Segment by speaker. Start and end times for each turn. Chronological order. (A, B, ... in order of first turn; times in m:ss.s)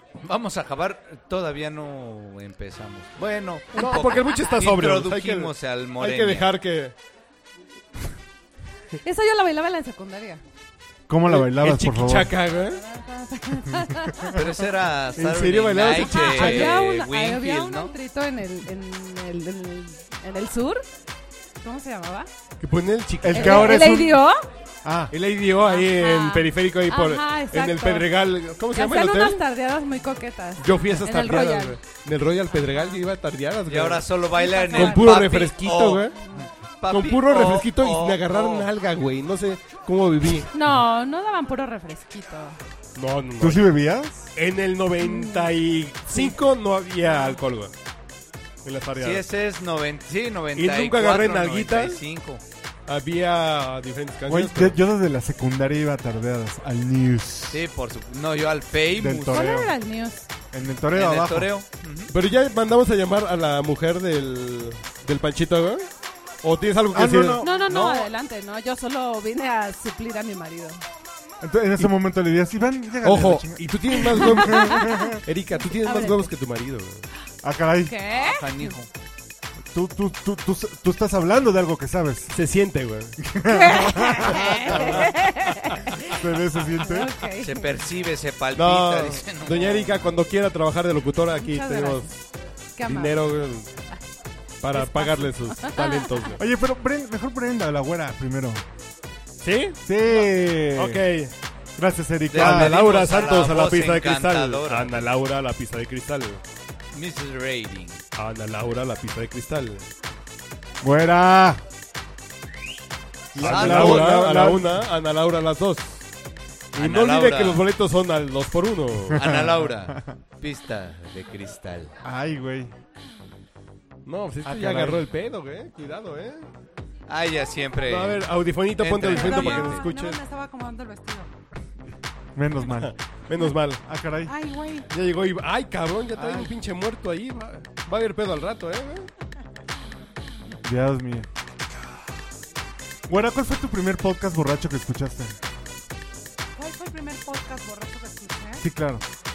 0:00.2-0:06.5 A
0:03.7-0:06.9 B
0:09.0-0:10.4 C
0:11.1-0:12.3 D
0:11.3-0:12.8 B
0:12.7-0:14.4 C
0:14.3-0:17.9 A
0:15.2-0:16.8 B
0:16.0-0:20.8 C
0:21.6-0:22.3 C
0:22.6-0:23.9 B
0:23.2-0:24.2 D
0:23.3-0:24.4 C
0:24.8-0:25.1 D
0:25.1-0:29.4 B
0:25.6-0:28.1 C
0:28.7-0:31.8 C
0:30.6-0:34.2 B
0:32.5-0:33.0 C
0:33.7-0:36.1 A
0:34.3-0:35.2 C
0:34.7-0:36.2 B
0:36.8-0:38.7 A
0:36.9-0:40.5 B
0:40.5-0:42.6 C
0:43.0-0:43.7 B
0:43.4-0:44.3 D
0:44.4-0:47.7 B
0:45.0-0:45.5 C
0:47.1-0:47.4 C
0:48.6-0:49.2 B
0:49.0-0:52.4 A
0:50.6-0:52.0 B
0:52.9-0:54.8 B
0:54.3-0:57.6 D
0:57.5-0:59.6 A
0:58.9-0:59.7 D
0:59.3-1:00.3 C
1:00.5-1:01.5 D
1:00.9-1:02.1 A
1:02.1-1:05.8 B
1:06.4-1:07.4 B
1:06.9-1:07.6 D
1:07.4-1:10.8 C
1:07.6-1:08.1 A
1:11.4-1:15.2 D
1:13.0-1:17.0 B
1:14.4-1:15.0 C
1:15.6-1:16.3 C
1:17.4-1:17.9 D
1:17.8-1:18.7 C
1:18.1-1:18.9 A
1:19.7-1:22.3 D
1:22.3-1:23.2 B
1:23.2-1:25.0 D
1:23.5-1:26.1 C
1:24.7-1:25.1 B
1:26.0-1:27.1 D
1:26.8-1:27.7 C
1:27.4-1:30.1 A
1:28.5-1:32.2 B
1:31.4-1:32.1 C
1:32.8-1:33.3 C
1:32.8-1:33.7 B
1:34.6-1:36.4 B
1:34.7-1:36.1 C
1:36.4-1:38.6 D
1:39.4-1:39.8 B
1:39.8-1:41.0 D
1:40.7-1:41.3 B
1:41.8-1:42.8 D
1:42.3-1:45.1 A
1:42.3-1:46.4 B
1:46.9-1:48.0 A
1:48.2-1:49.8 B
1:50.8-1:51.6 D
1:53.3-1:56.0 B
1:53.3-1:54.8 D
1:53.4-1:54.2 A
1:56.7-1:57.6 A
1:56.7-1:59.2 B
1:59.1-2:00.1 D
1:59.1-2:01.9 A
2:02.0-2:02.7 D
2:04.0-2:06.5 B
2:04.4-2:05.0 A
2:07.1-2:09.8 A
2:07.9-2:10.2 B
2:09.1-2:11.3 C
2:12.4-2:12.9 D
2:12.7-2:13.8 B
2:13.8-2:14.3 D
2:14.2-2:14.9 C
2:14.9-2:19.1 B
2:16.1-2:16.5 D
2:20.6-2:21.3 D
2:23.1-2:25.4 D
2:26.6-2:28.6 C
2:28.6-2:29.0 D